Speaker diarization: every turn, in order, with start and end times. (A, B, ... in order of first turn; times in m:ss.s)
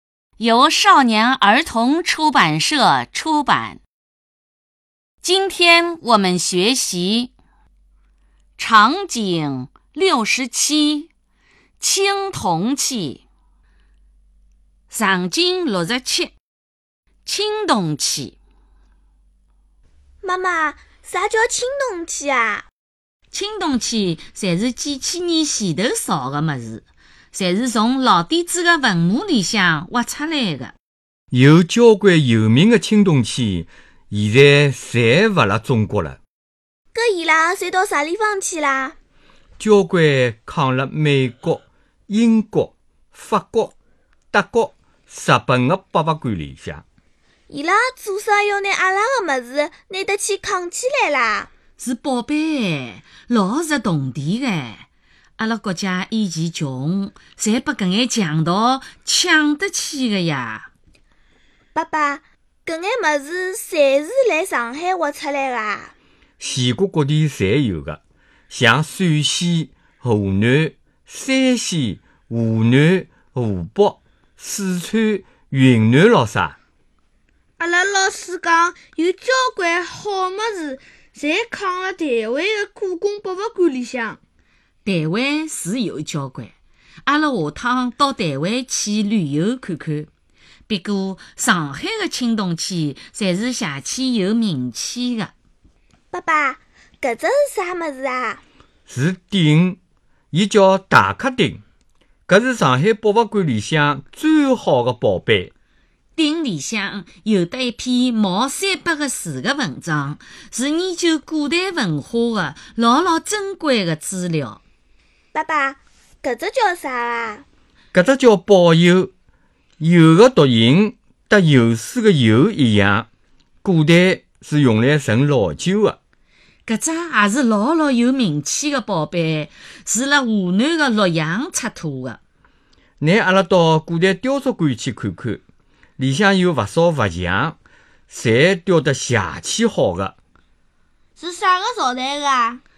0:00.4-0:03.8 A
0:05.2-0:07.3 A
0:08.6-0:11.1 A
0:11.8-0:13.2 A
0:14.9-0:16.3 A
0:17.2-0:18.4 A
0:20.2-0:22.6 B
0:23.3-0:30.7 A
0:31.3-0:36.2 C
0:36.9-0:39.0 B
0:39.6-0:43.7 C
0:44.3-0:46.8 C
0:47.5-0:51.5 B
0:51.8-0:54.8 A
0:55.4-1:00.7 A
1:01.7-1:05.9 B
1:06.4-1:16.6 C
1:17.6-1:24.2 D
1:24.8-1:26.5 A
1:27.0-1:30.1 A
1:30.7-1:35.3 A
1:36.1-1:38.4 B
1:38.9-1:39.8 C
1:40.3-1:41.6 C
1:42.3-1:45.5 C
1:46.2-1:54.6 A
1:55.3-1:57.4 B
1:57.9-1:59.1 C
1:59.8-2:03.1 C
2:03.6-2:06.0 C
2:06.6-2:12.2 A
2:13.0-2:15.4 C
2:16.0-2:17.6 C
2:18.1-2:20.1 C
2:21.2-2:22.6 B